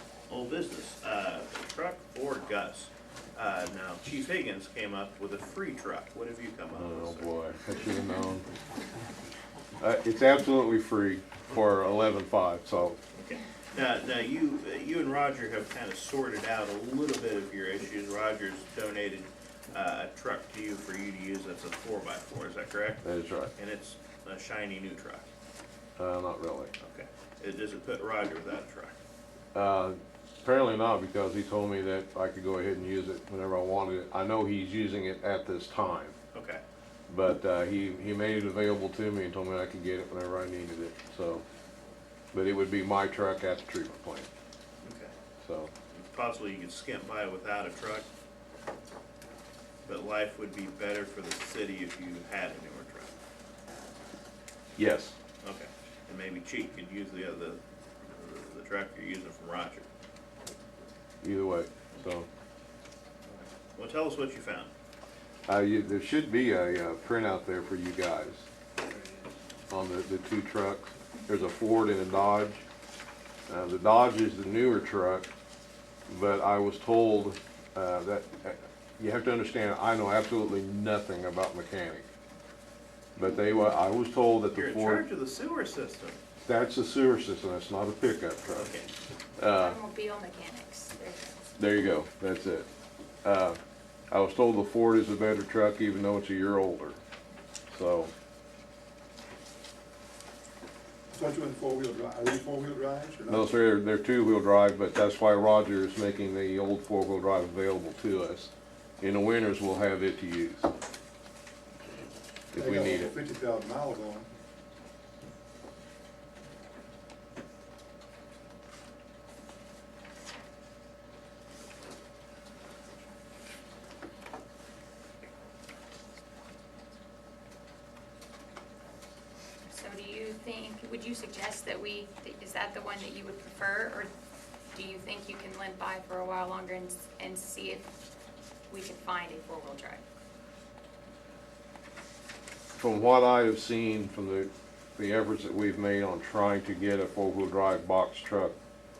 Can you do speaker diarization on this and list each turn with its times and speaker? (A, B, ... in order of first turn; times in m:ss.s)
0:00.3-0:07.3 A
0:06.7-0:08.5 B
0:09.8-0:13.0 B
0:13.1-0:23.0 A
0:23.0-0:23.5 B
0:23.6-0:25.2 A
0:26.0-0:26.7 B
0:26.8-0:29.0 A
0:29.5-0:36.2 B
0:36.3-0:36.6 A
0:37.1-0:41.4 B
0:42.3-0:44.3 B
0:44.8-0:45.1 A
0:45.4-0:45.7 B
0:45.9-0:48.0 A
0:49.8-0:53.1 A
0:54.8-0:55.2 B
0:55.4-0:59.9 A
1:01.2-1:02.3 B
1:03.3-1:04.7 A
1:05.5-1:08.4 B
1:09.7-1:12.6 B
1:13.5-1:15.3 B
1:16.1-1:22.0 B
1:23.2-1:25.0 B
1:24.5-1:26.2 A
1:26.4-1:28.7 B
1:28.5-1:28.9 A
1:29.4-1:29.8 B
1:29.5-1:31.5 C
1:31.6-1:32.7 B
1:33.2-1:33.6 B
1:34.1-1:37.0 B
1:37.7-1:38.1 B
1:41.1-1:43.4 D
1:43.3-1:50.7 B
1:52.5-1:53.1 B
1:52.6-1:54.3 D
2:09.7-2:14.1 C
2:14.7-2:17.9 C
2:18.7-2:20.0 C
2:22.8-2:28.5 B